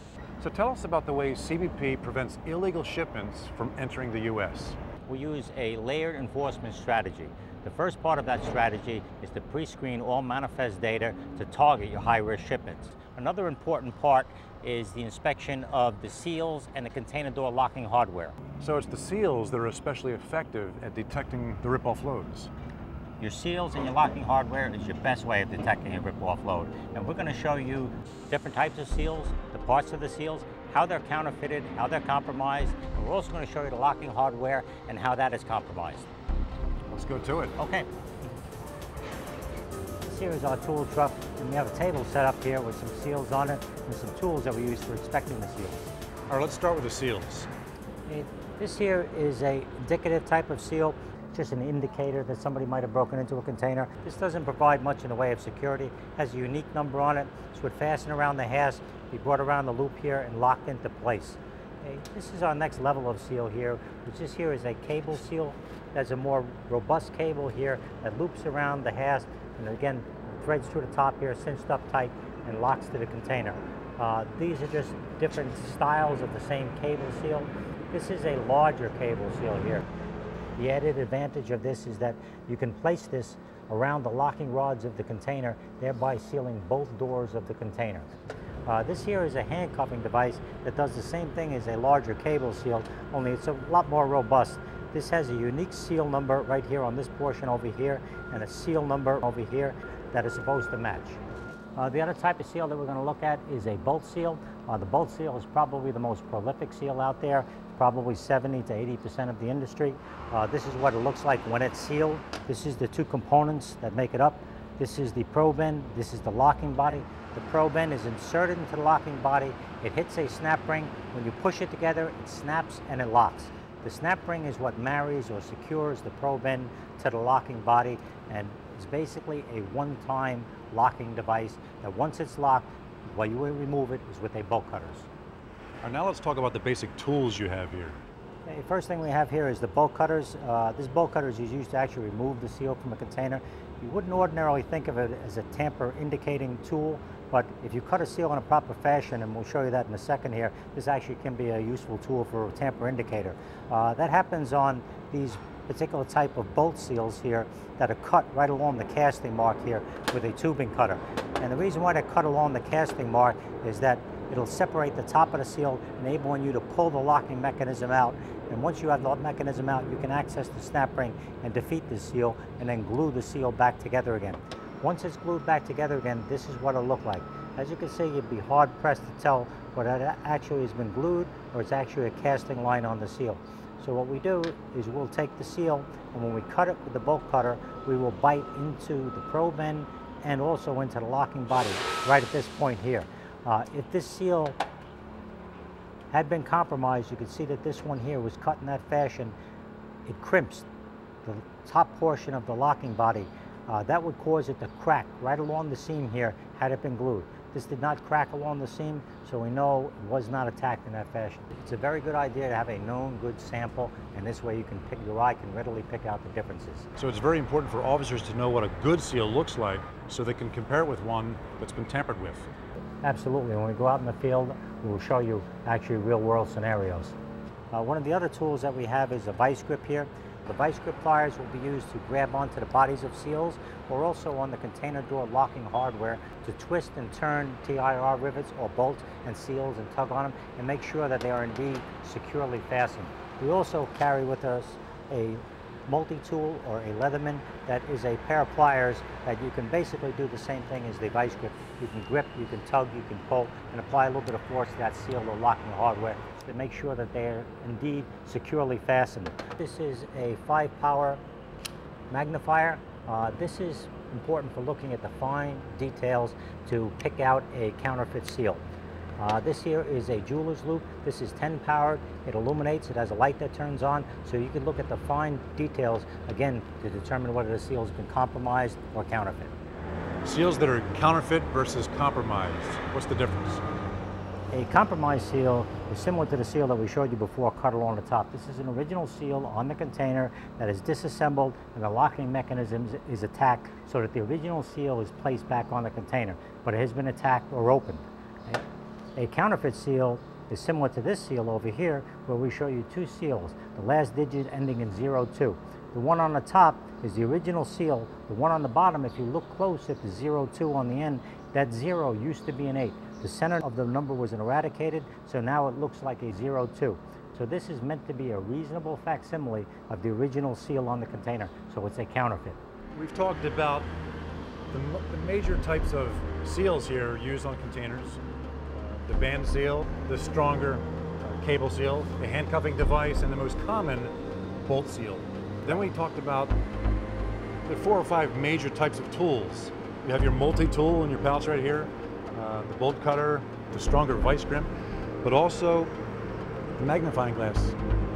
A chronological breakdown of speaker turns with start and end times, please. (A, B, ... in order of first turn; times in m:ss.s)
0:00.4-0:04.8 A
0:05.0-0:18.3 B
0:18.6-0:22.5 A
0:23.2-0:36.1 B
0:36.9-0:37.5 A
0:37.6-0:37.9 B
0:40.0-0:45.8 B
0:46.3-0:47.5 A
0:48.1-1:19.9 B
1:20.6-1:28.1 B
1:28.6-1:41.2 B
1:41.8-2:15.1 B
2:15.8-2:18.0 A
2:18.4-3:14.6 B
3:16.1-3:19.4 B
3:20.0-3:20.7 B
3:21.2-3:36.9 B
3:37.0-3:42.5 A
3:43.0-3:47.1 B
3:47.7-4:21.2 B
4:22.1-4:28.6 B
4:29.2-4:39.5 B
4:40.2-4:43.6 A
4:44.5-4:58.6 B
4:59.2-5:22.6 B
5:22.9-5:23.9 A
5:24.7-5:28.2 A
5:28.7-5:34.1 A
5:34.6-5:36.5 A
5:37.6-5:44.7 A
5:45.2-5:45.9 A
5:46.8-5:47.8 A